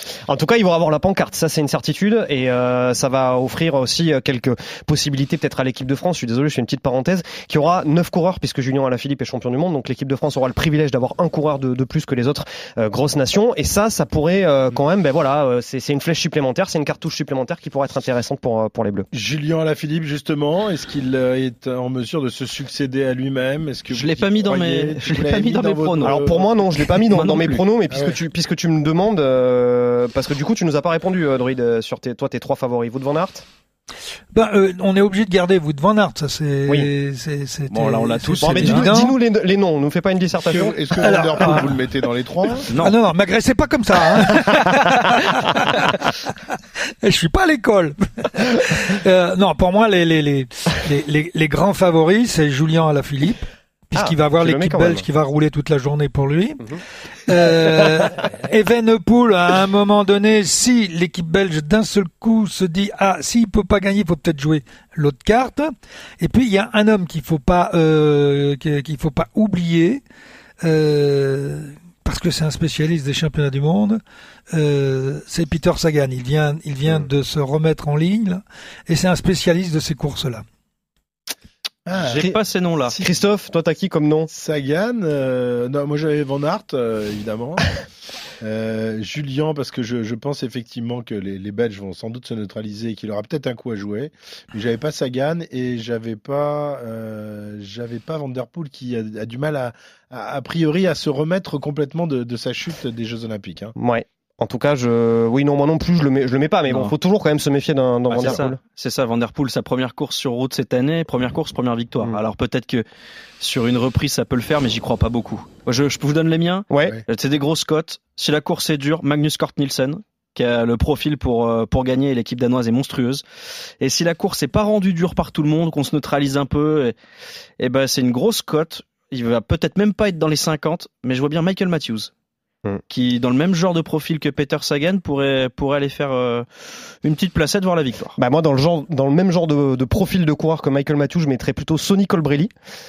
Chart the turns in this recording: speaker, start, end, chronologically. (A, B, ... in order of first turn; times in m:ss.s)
0:00.3-0:19.1 A
0:19.1-0:26.5 B
0:23.9-0:26.3 C
0:26.0-0:33.4 A
0:26.9-0:27.6 C
0:27.9-0:28.2 B
0:34.3-0:39.1 D
0:37.7-0:38.9 C
0:38.4-0:41.1 A
0:40.5-0:42.7 B
0:41.0-0:41.7 D
0:42.7-0:42.9 C
0:42.8-0:45.9 D
0:47.0-0:56.6 D
0:53.9-0:55.0 A
0:57.3-1:10.0 D
1:10.6-1:14.0 D
1:14.5-1:20.4 D
1:21.9-1:22.3 B
1:22.0-1:23.0 C
1:22.9-1:24.3 A
1:24.3-1:27.7 B
1:28.4-1:43.7 B
1:43.8-1:48.6 A
1:48.1-1:52.8 C
1:53.4-2:03.2 C
1:56.7-1:57.0 A
2:03.8-2:06.9 C
2:07.6-2:12.1 C
2:12.9-2:16.4 C
2:17.0-2:18.2 C
2:18.2-2:22.5 A